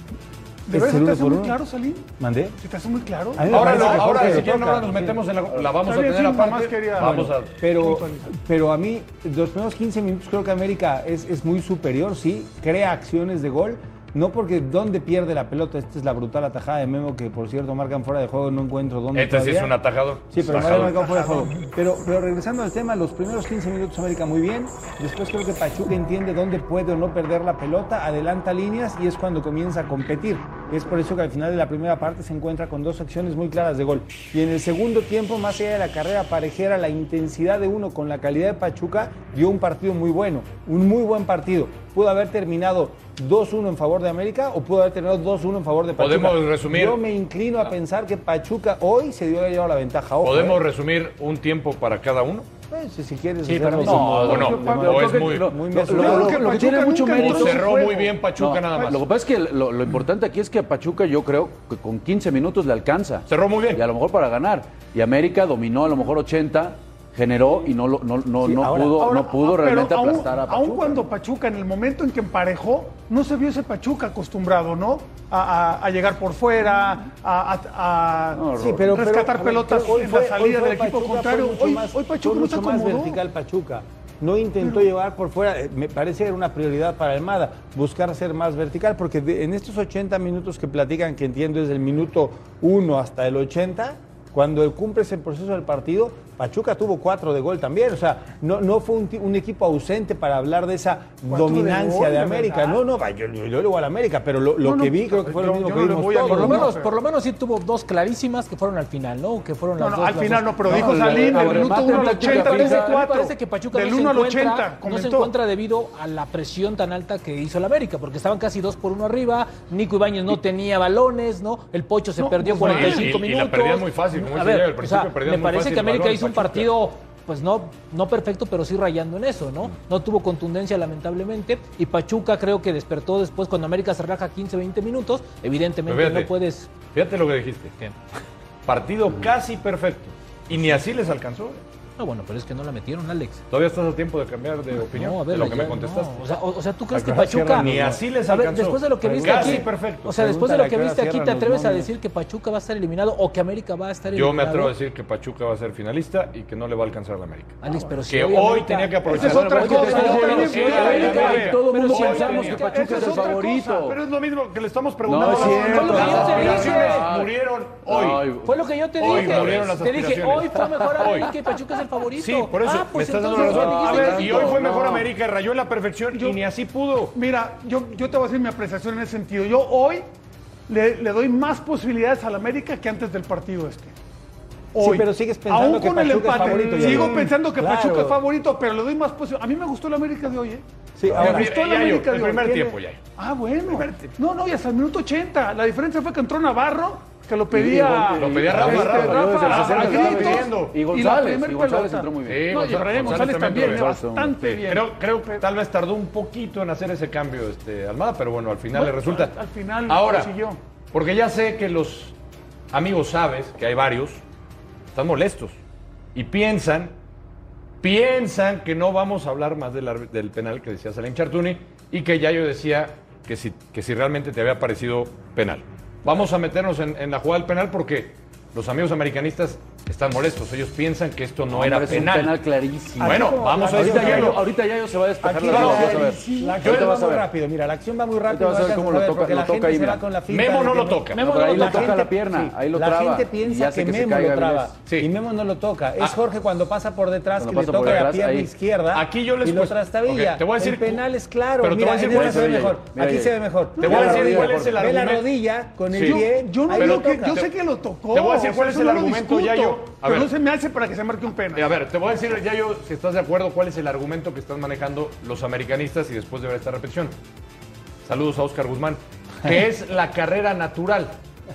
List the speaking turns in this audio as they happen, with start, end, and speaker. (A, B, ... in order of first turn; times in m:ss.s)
0:00.7-0:02.1 A
0:00.7-0:01.6 B
0:02.2-0:02.5 B
0:02.6-0:04.5 A
0:03.3-0:05.2 B
0:03.5-0:07.5 C
0:05.8-0:08.3 A
0:07.0-0:19.7 B
0:19.1-0:21.0 C
0:20.3-0:50.6 B
0:21.0-0:21.5 A
0:46.0-0:47.0 C
0:50.2-0:52.5 C
0:52.7-0:56.6 B
0:53.4-0:54.4 D
0:53.8-0:57.8 E
0:54.0-0:55.6 C
0:55.9-0:58.2 A
0:57.1-0:59.0 C
0:58.4-1:11.0 E
1:03.3-1:03.8 C
1:08.4-1:09.1 B
1:09.0-1:23.2 A
1:18.3-1:19.0 E
1:18.5-1:46.7 B
1:41.3-1:42.8 A
1:44.6-1:47.0 A
1:46.2-2:16.7 D
1:49.8-1:55.3 A
1:50.7-1:52.9 E
2:02.4-2:06.7 C
2:02.5-2:02.9 A
2:15.9-2:16.3 C
2:16.9-2:17.7 C
2:18.6-2:21.6 C
2:22.0-2:23.4 D
2:23.5-2:26.2 C
2:24.9-2:27.7 D
2:27.0-2:28.0 B
2:27.3-2:30.1 C
2:28.3-2:34.7 D
2:29.0-2:31.9 B
2:34.1-2:42.7 C
2:37.6-2:43.5 D
2:39.0-2:43.8 A
2:39.4-2:44.0 E
2:43.8-2:48.2 C
2:45.0-2:47.3 E
2:45.2-2:47.0 D
2:47.8-2:49.7 E
2:48.4-2:54.6 D
2:49.0-2:51.3 C
2:50.6-2:51.2 E
2:52.2-2:57.1 C
2:53.4-2:55.1 E
2:56.1-2:56.4 A
2:57.1-3:00.0 A
3:00.7-3:03.9 A
3:04.7-3:25.4 A
3:04.8-3:08.2 B
3:06.4-3:07.0 C
3:11.0-3:11.5 B
3:11.1-3:13.0 C
3:17.5-3:24.5 E
3:18.1-3:20.7 C
3:22.2-3:23.9 C
3:24.4-3:29.3 C
3:28.7-3:30.6 A
3:29.9-3:30.3 C
3:30.9-3:32.1 C
3:32.7-3:34.2 C
3:34.9-3:35.6 C
3:36.1-3:36.9 C
3:37.8-3:52.4 C
3:51.5-3:57.3 E
3:53.0-3:54.4 B
3:53.0-3:54.4 C
3:53.4-3:54.3 A
3:55.2-4:17.4 B
3:55.5-3:56.1 C
3:55.5-3:56.6 A
3:56.6-3:57.0 C
3:58.3-4:00.0 E
4:00.3-4:01.2 C
4:01.1-4:02.0 D
4:01.1-4:04.7 E
4:07.4-4:08.5 E
4:07.8-4:08.1 C
4:08.9-4:11.0 C
4:11.6-4:12.8 C
4:12.0-4:14.9 E
4:13.8-4:15.3 C
4:15.9-4:17.5 C
4:16.0-4:21.7 A
4:18.1-4:20.3 C
4:21.5-4:27.1 C
4:28.0-4:31.2 C